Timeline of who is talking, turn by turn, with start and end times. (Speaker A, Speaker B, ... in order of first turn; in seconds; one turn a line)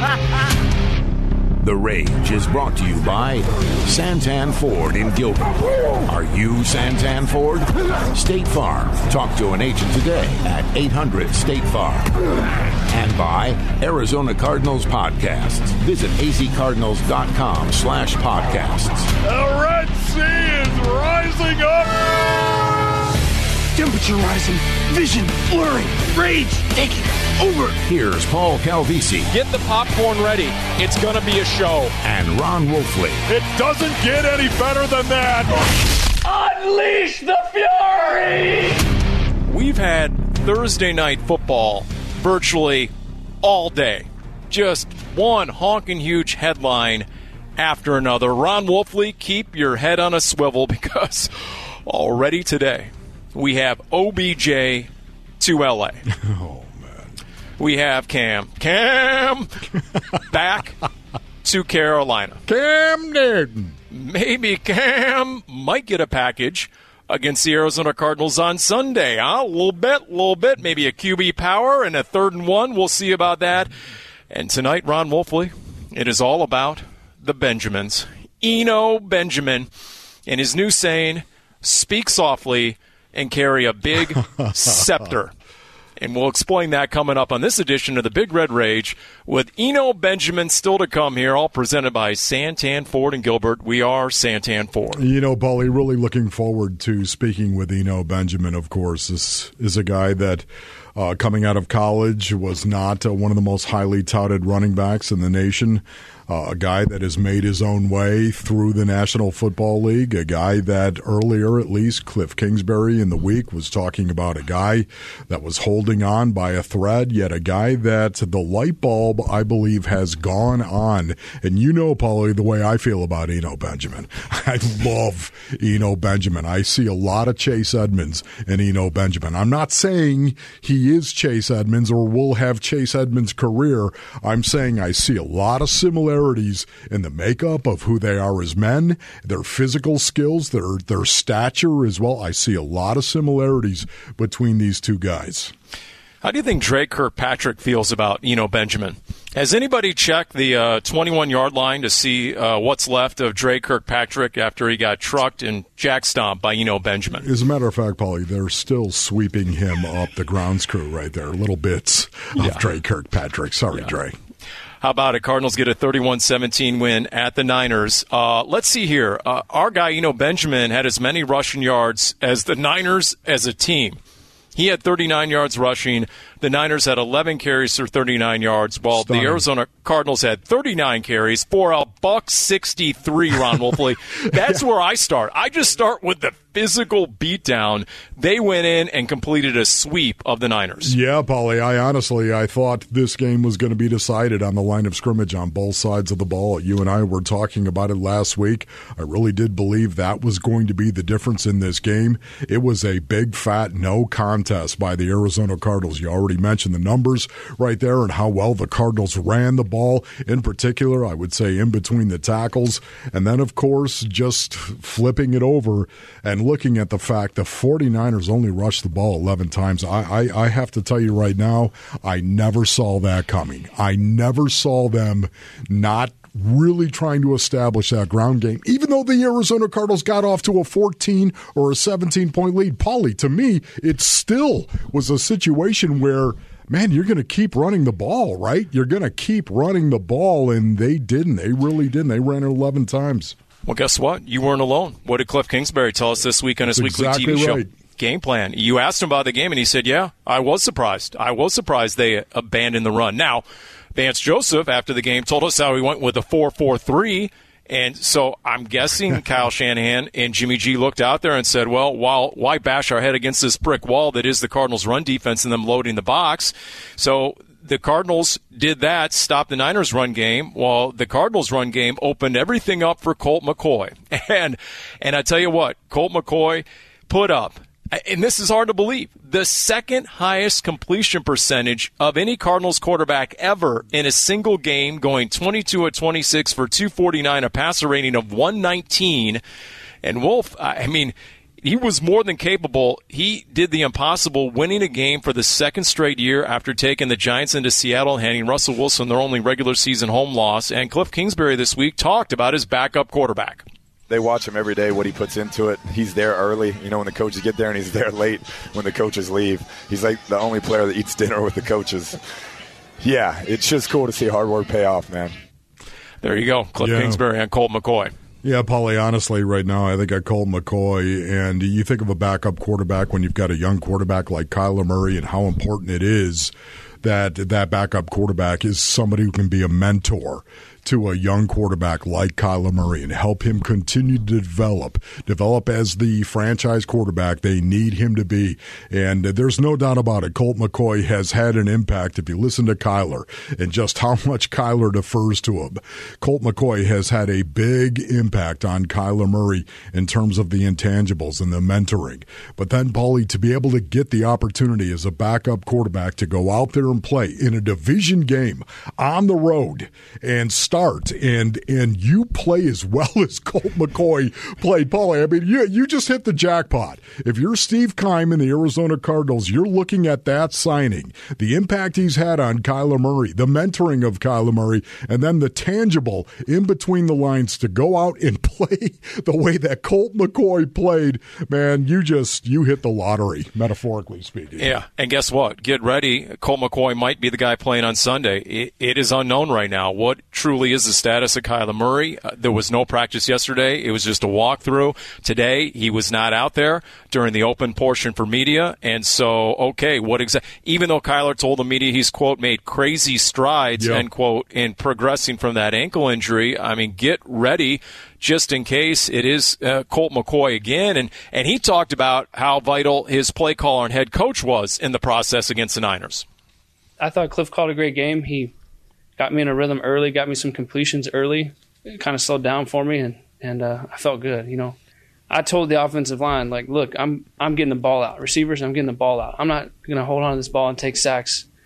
Speaker A: 1.6-12.1
Speaker A: 12.9-19.1
Speaker B: 19.3-21.9
Speaker C: 23.8-26.2
Speaker A: 27.8-29.3
Speaker D: 29.3-31.9
Speaker A: 32.0-33.2
Speaker E: 34.6-35.3
Speaker D: 39.5-42.9
Speaker D: 43.4-47.1
Speaker D: 47.6-51.3
Speaker D: 51.9-56.0
Speaker E: 56.1-57.1
Speaker D: 57.6-59.6
Speaker D: 60.3-60.8
Speaker D: 61.4-62.4
Speaker E: 62.5-63.8
Speaker D: 63.9-73.7
Speaker D: 74.3-79.7
Speaker D: 80.3-85.3
Speaker D: 86.0-95.0
Speaker E: 95.0-145.5
Speaker D: 146.2-157.3
Speaker E: 157.2-164.2
Speaker D: 164.8-174.0
Speaker D: 174.6-190.9
Speaker E: 178.9-179.4
Speaker E: 190.8-243.3
Speaker D: 243.7-253.4
Speaker E: 246.6-247.7
Speaker D: 253.9-289.4
Speaker D: 290.0-303.6
Speaker F: 304.1-312.2
Speaker F: 313.0-315.4
Speaker D: 316.2-318.1
Speaker E: 316.8-317.2
Speaker E: 318.4-384.7
Speaker D: 384.6-416.2
Speaker E: 403.8-404.1
Speaker G: 417.0-418.5
Speaker G: 419.2-424.8
Speaker G: 425.3-431.5